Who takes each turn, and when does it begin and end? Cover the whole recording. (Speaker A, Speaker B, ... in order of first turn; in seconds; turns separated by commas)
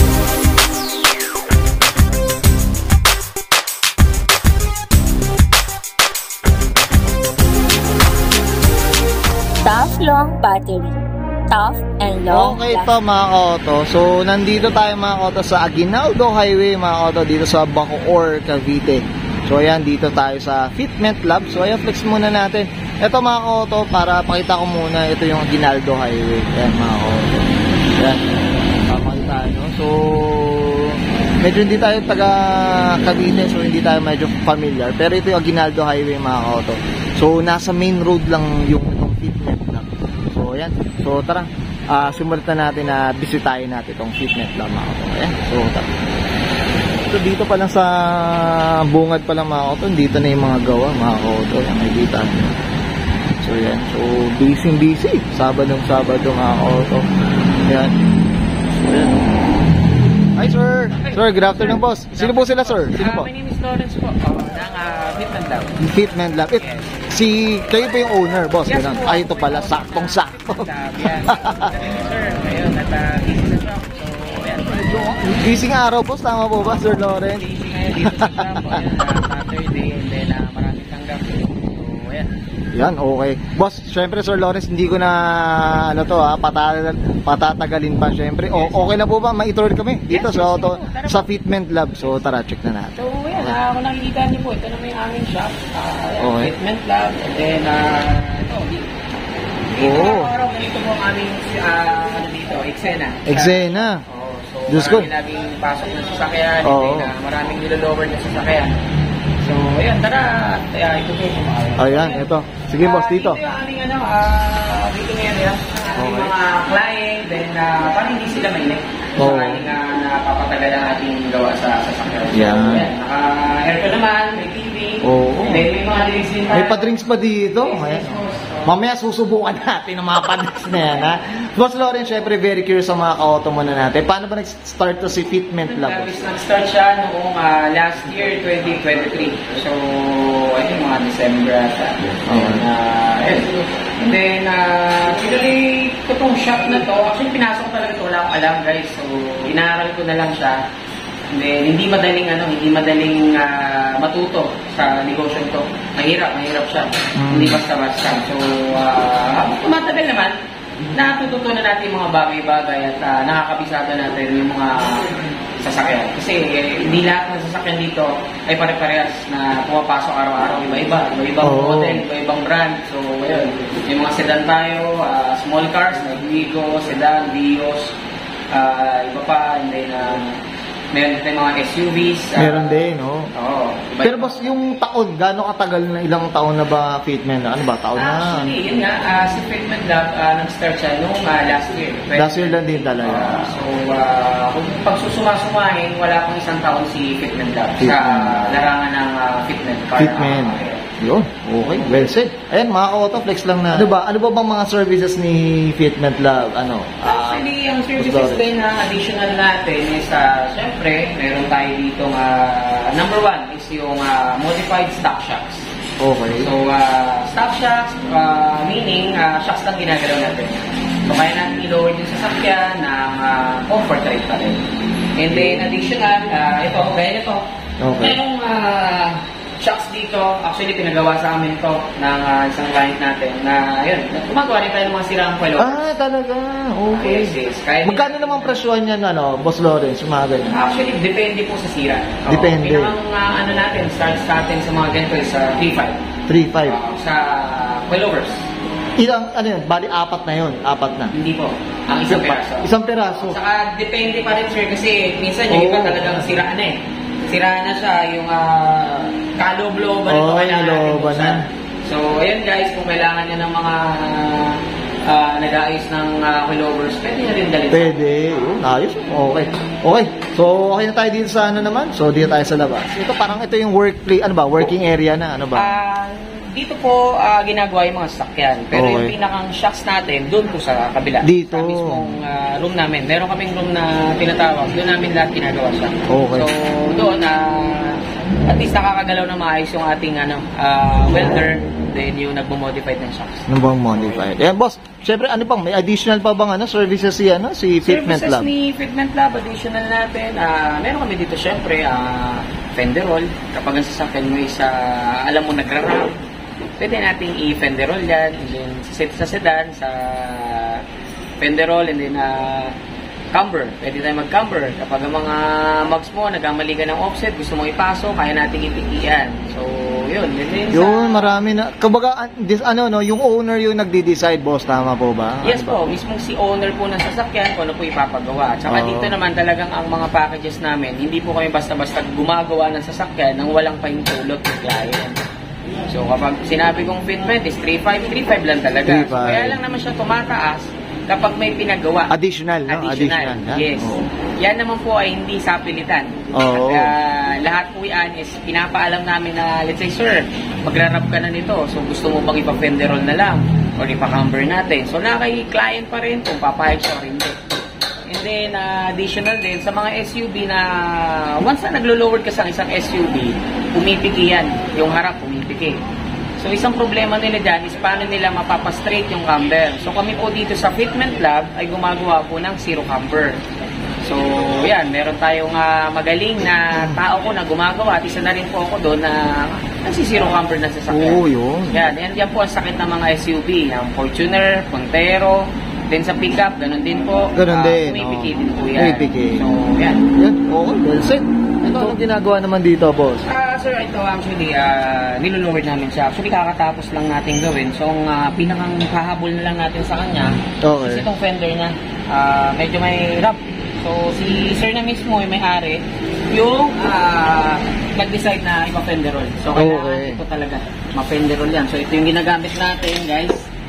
Speaker A: 9.6-11.0, Speaker A: 11.5-12.9, Speaker B: 12.3-28.2, Speaker B: 28.9-45.9, Speaker B: 47.1-52.6, Speaker B: 53.4-57.0, Speaker B: 57.6-57.9, Speaker B: 58.7-59.2, Speaker B: 60.4-63.3, Speaker C: 61.0-65.8, Speaker B: 65.8-71.7, Speaker C: 66.5-67.0, Speaker C: 68.7-74.8, Speaker B: 74.7-77.5, Speaker C: 76.7-82.3, Speaker B: 78.0-78.8, Speaker B: 82.7-93.6, Speaker C: 88.5-88.9, Speaker C: 90.1-91.4, Speaker C: 91.9-92.2, Speaker C: 93.0-98.9, Speaker B: 96.2-96.5, Speaker C: 99.7-108.7, Speaker B: 99.8-100.3, Speaker B: 103.2-104.0, Speaker B: 104.7-105.1, Speaker B: 106.6-107.1, Speaker C: 109.4-128.8, Speaker B: 111.8-113.4, Speaker B: 116.0-116.3, Speaker B: 119.2-119.7, Speaker B: 122.3-122.9, Speaker B: 125.0-125.7, Speaker B: 126.5-136.3, Speaker C: 135.6-150.6, Speaker B: 142.2-142.7, Speaker C: 151.3-160.3, Speaker B: 157.2-157.6, Speaker C: 160.9-177.9, Speaker B: 171.4-172.0, Speaker C: 178.5-180.4, Speaker C: 180.9-184.5, Speaker B: 182.4-183.3, Speaker B: 184.0-188.5, Speaker C: 187.9-200.9, Speaker B: 192.1-193.6, Speaker B: 197.8-198.6, Speaker B: 199.9-208.4, Speaker C: 201.7-202.1, Speaker C: 207.0-215.7, Speaker B: 216.0-216.5, Speaker C: 216.3-224.6, Speaker C: 225.2-227.4, Speaker B: 225.3-225.7, Speaker B: 227.8-228.2, Speaker C: 228.0-235.9, Speaker B: 235.6-240.5, Speaker C: 236.9-238.6, Speaker C: 240.5-246.0, Speaker B: 242.3-242.9, Speaker B: 246.3-246.8, Speaker C: 246.6-248.5, Speaker B: 249.0-251.1, Speaker C: 251.1-268.0, Speaker B: 252.1-253.4, Speaker B: 255.5-256.3, Speaker B: 260.1-261.4, Speaker B: 267.7-275.8, Speaker C: 275.5-294.2, Speaker B: 278.7-279.1, Speaker B: 281.2-282.1, Speaker B: 286.1-286.5, Speaker B: 293.5-298.5, Speaker C: 297.8-306.2, Speaker C: 306.8-310.8, Speaker C: 311.4-312.7, Speaker C: 313.3-321.4, Speaker B: 320.7-325.9, Speaker C: 325.4-335.2, Speaker B: 328.7-329.1, Speaker C: 335.9-342.1, Speaker B: 338.9-339.6, Speaker B: 342.1-344.0, Speaker C: 342.7-357.4, Speaker B: 346.3-346.9, Speaker C: 358.0-365.8, Speaker C: 366.4-373.3, Speaker C: 374.0-390.0, Speaker B: 380.9-381.9, Speaker B: 387.3-389.4, Speaker B: 390.1-393.2, Speaker C: 391.6-392.0, Speaker C: 393.2-413.5, Speaker B: 400.6-401.1, Speaker B: 409.5-410.2